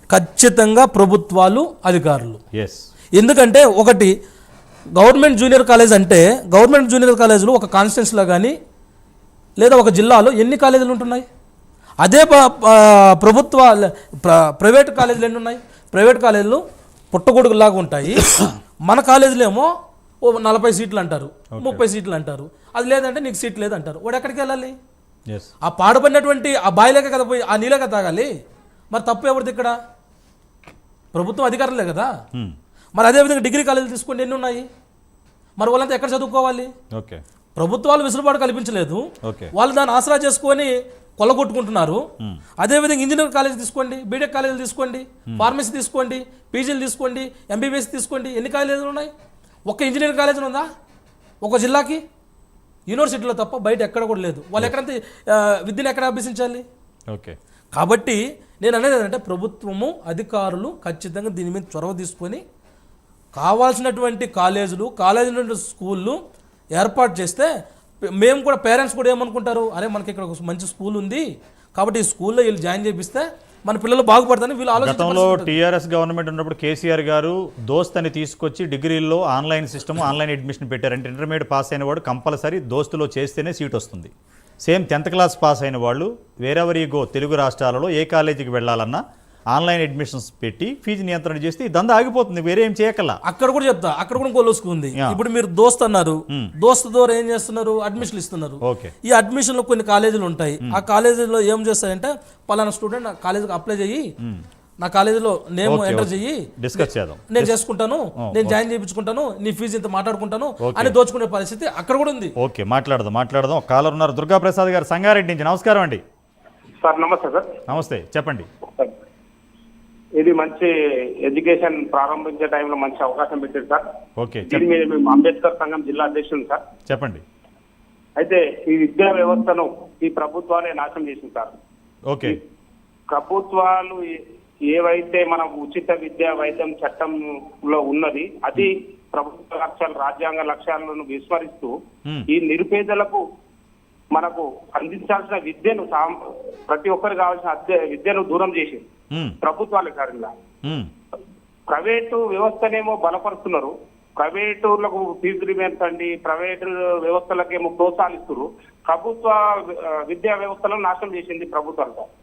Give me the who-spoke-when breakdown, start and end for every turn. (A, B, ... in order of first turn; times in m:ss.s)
0:00.1-0:02.4 A
0:03.2-0:04.1 A
0:05.0-0:08.5 A
0:09.6-0:11.2 A
0:12.0-0:16.6 A
0:17.1-0:19.7 A
0:20.2-0:24.7 A
0:21.5-0:21.8 B
0:25.6-0:28.3 A
0:28.9-0:29.7 A
0:31.1-0:32.1 A
0:33.0-0:34.7 A
0:35.6-0:36.7 A
0:36.9-0:37.2 B
0:37.6-0:39.0 A
0:39.2-0:39.5 B
0:39.5-0:42.0 A
0:42.6-0:49.1 A
0:49.7-0:50.7 A
0:51.4-0:52.0 A
0:52.9-0:56.6 A
0:57.1-0:57.4 B
0:57.7-1:02.4 A
1:03.3-1:06.2 A
1:06.8-1:07.5 A
1:08.2-1:11.2 A
1:11.8-1:15.6 A
1:14.8-1:24.1 B
1:24.6-1:29.0 B
1:29.5-1:33.2 B
1:33.2-1:44.0 A
1:38.6-1:38.9 B
1:44.8-1:52.3 A
1:45.6-1:47.6 B
1:48.2-1:48.6 B
1:50.6-1:50.9 B
1:52.4-1:56.0 B
1:56.8-1:57.5 C
1:57.7-1:58.5 B
2:00.2-2:00.7 C
2:01.2-2:03.8 C
2:04.2-2:04.6 B
2:04.5-2:06.6 C
2:06.9-2:07.2 B
2:08.2-2:11.5 C
2:12.1-2:12.4 B
2:13.1-2:14.2 C
2:14.7-2:21.7 C
2:22.3-2:23.2 C
2:24.1-2:26.1 C
2:26.7-2:28.8 C
2:29.1-2:29.4 B
2:29.4-2:30.3 C
2:31.7-2:42.0 C